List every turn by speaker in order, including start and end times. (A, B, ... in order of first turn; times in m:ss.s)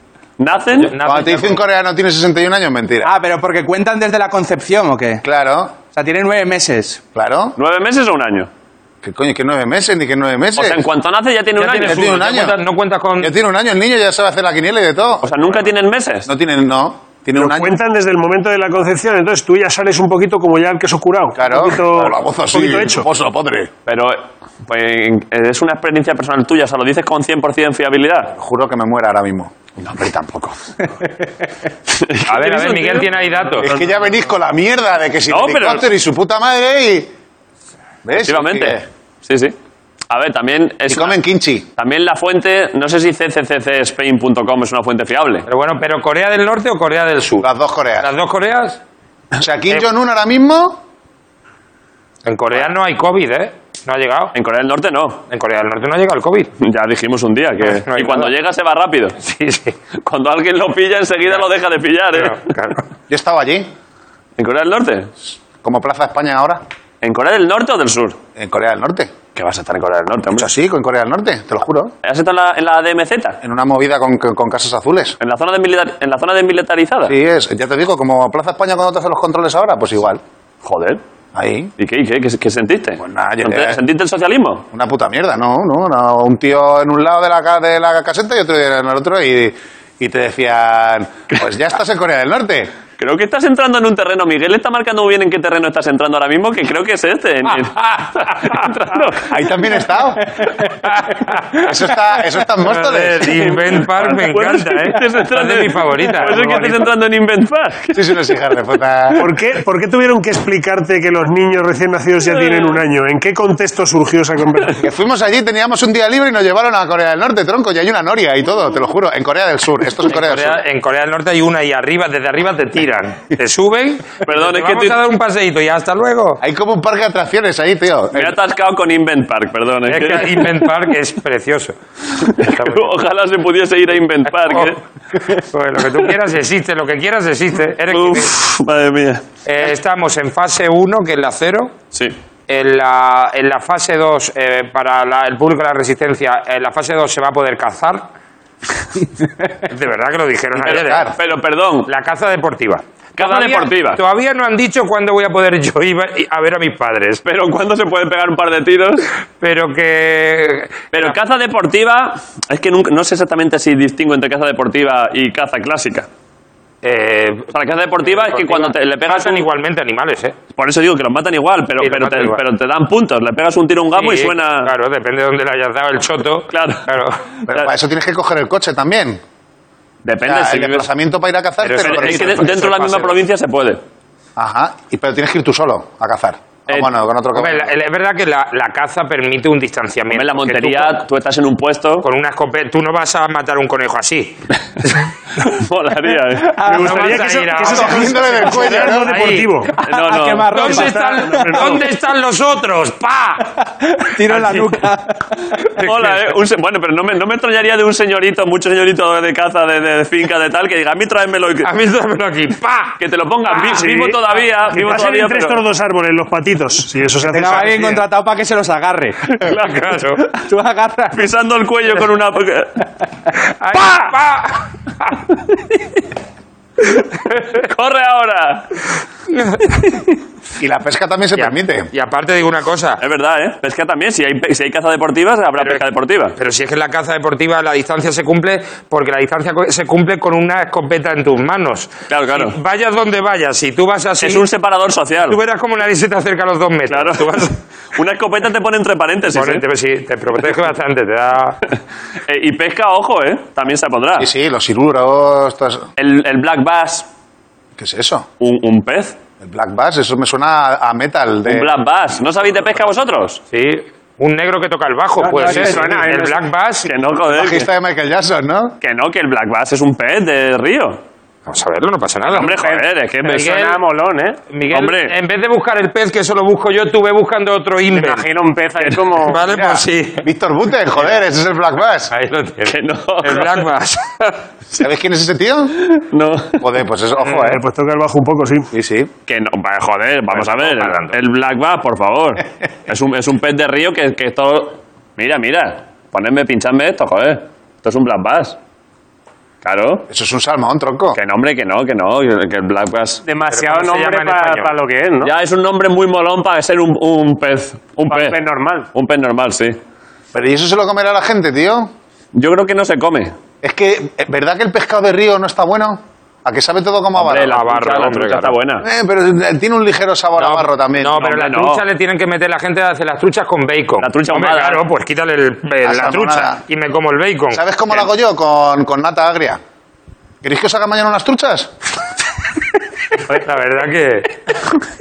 0:00.4-0:00.9 A
0:00.8-0:01.6 B
0:01.0-0:03.1 C
0:03.0-0:05.2 D
0:05.2-0:05.8 C
0:05.9-0:07.0 D
0:07.1-0:07.6 C
0:07.6-0:08.5 A
0:09.0-0:10.8 C
0:10.6-0:12.2 A
0:11.6-0:13.3 B
0:11.7-0:12.6 C
0:13.2-0:15.4 C
0:15.2-0:16.3 A
0:16.2-0:17.8 C
0:17.3-0:23.1 E
0:21.3-0:23.7 C
0:23.8-0:28.3 A
0:28.4-0:29.5 C
0:29.8-0:30.6 A
0:31.9-0:33.1 A
0:32.3-0:33.7 B
0:33.6-0:37.1 C
0:35.3-0:35.9 A
0:38.0-0:38.8 C
0:38.2-0:39.5 A
0:40.1-0:41.2 A
0:40.9-0:41.7 C
0:41.8-0:45.5 A
0:45.5-0:47.5 B
0:47.4-0:48.1 C
0:48.0-0:48.8 B
0:49.4-0:50.8 C
0:52.2-0:54.3 B
0:54.3-0:55.2 A
0:55.3-0:56.5 B
0:56.6-0:59.2 A
0:57.6-0:58.3 B
0:59.2-0:59.7 B
1:00.0-1:02.4 A
1:02.1-1:02.8 B
1:03.1-1:03.7 C
1:04.4-1:05.1 A
1:05.6-1:06.6 C
1:07.0-1:08.2 A
1:08.4-1:09.1 C
1:09.3-1:10.5 A
1:10.3-1:11.9 C
1:12.0-1:13.4 A
1:13.4-1:15.2 C
1:15.2-1:17.1 A
1:17.0-1:20.2 C
1:20.6-1:21.0 A
1:21.3-1:21.7 C
1:21.8-1:24.6 A
1:23.0-1:23.8 C
1:24.7-1:32.7 C
1:33.0-1:39.3 A
1:38.0-1:38.6 B
1:39.3-1:40.4 C
1:41.0-1:41.7 B
1:41.6-1:43.4 C
1:42.6-1:46.9 B
1:43.3-1:48.4 A
1:47.9-1:49.2 C
1:49.2-1:54.8 E
1:52.2-1:52.8 A
1:54.8-2:00.6 C
2:00.0-2:06.4 B
2:04.2-2:05.0 A
2:06.4-2:08.4 C
2:08.1-2:10.6 A
2:09.9-2:11.7 B
2:12.3-2:14.8 A
2:12.3-2:13.0 B
2:14.3-2:18.3 B
2:17.9-2:19.2 A
2:19.4-2:21.7 B
2:22.5-2:28.0 B
2:29.7-2:31.1 B
2:30.6-2:31.1 C
2:30.6-2:31.9 A
2:31.9-2:37.2 B
2:33.2-2:34.0 A
2:37.2-2:39.1 A
2:39.4-2:41.2 B
2:40.9-2:46.1 A
2:46.8-2:47.5 B
2:47.5-2:49.4 A
2:48.0-2:50.4 B
2:50.6-2:54.7 A
2:51.8-2:52.4 B
2:53.9-2:57.2 B
2:56.5-2:56.8 A
2:57.5-2:59.2 C
3:00.0-3:00.9 A
3:00.2-3:03.1 C
3:01.6-3:03.2 B
3:01.7-3:03.8 A
3:04.4-3:07.7 C
3:07.3-3:11.0 B
3:10.1-3:12.0 A
3:12.0-3:14.4 B
3:15.5-3:16.6 A
3:16.4-3:17.2 D
3:16.6-3:19.7 E
3:16.7-3:19.6 B
3:17.6-3:19.3 C
3:19.7-3:21.8 D
3:19.8-3:20.5 A
3:20.5-3:21.9 E
3:20.5-3:23.6 B
3:23.9-3:25.3 D
3:24.2-3:24.8 B
3:25.8-3:26.3 B
3:25.8-3:31.7 A
3:31.6-3:33.0 B
3:33.0-3:35.6 A
3:33.7-3:38.0 E
3:37.2-3:39.3 D
3:39.4-3:40.2 B
3:40.3-3:41.2 D
3:41.1-3:42.8 A
3:43.4-3:45.1 B
3:47.5-3:48.7 A
3:49.3-3:50.0 B
3:50.6-3:51.9 C
3:51.4-3:53.0 B
3:53.0-3:56.3 A
3:55.6-3:55.8 B
3:56.4-4:04.4 B
4:02.1-4:02.6 A
4:04.2-4:05.4 A
4:05.2-4:07.5 B
4:06.9-4:07.4 A
4:07.9-4:09.6 A
4:09.3-4:11.6 B
4:12.3-4:14.3 A
4:14.2-4:15.8 C
4:16.0-4:17.1 A
4:17.8-4:18.2 C
4:18.4-4:19.2 A
4:19.4-4:21.7 C
4:21.4-4:23.4 A
4:23.5-4:26.9 B
4:25.2-4:26.4 F
4:26.8-4:27.7 A
4:27.3-4:28.7 C
4:28.8-4:31.0 A
4:31.5-4:32.6 B
4:32.3-4:33.5 A
4:32.4-4:34.4 F
4:33.3-4:33.8 B
4:34.5-4:38.2 B
4:34.7-4:35.2 A
4:37.9-4:39.4 F
4:38.8-4:39.0 A
4:39.2-4:40.3 B
4:39.4-4:42.1 C
4:42.1-4:44.4 B
4:42.6-4:43.6 A
4:44.8-4:45.8 C
4:45.8-4:46.6 A
4:46.6-4:47.6 C
4:47.2-4:47.6 B
4:47.4-4:48.7 E
4:48.7-4:49.1 C
4:49.3-4:58.6 A
4:50.3-4:51.1 B
4:59.6-5:00.0 A
5:00.1-5:01.2 C
5:01.1-5:03.2 A
5:03.2-5:05.3 F
5:03.5-5:04.7 B
5:05.2-5:08.4 A
5:08.1-5:08.9 F
5:08.9-5:09.8 A
5:10.3-5:11.9 C
5:12.3-5:13.3 A
5:13.6-5:17.6 C
5:17.2-5:18.8 A
5:17.4-5:18.6 B
5:18.8-5:21.2 C
5:20.4-5:27.6 B
5:21.2-5:21.8 A
5:24.0-5:24.8 A
5:25.8-5:26.6 C
5:27.5-5:29.6 C
5:30.4-5:31.7 C
5:33.2-5:34.4 B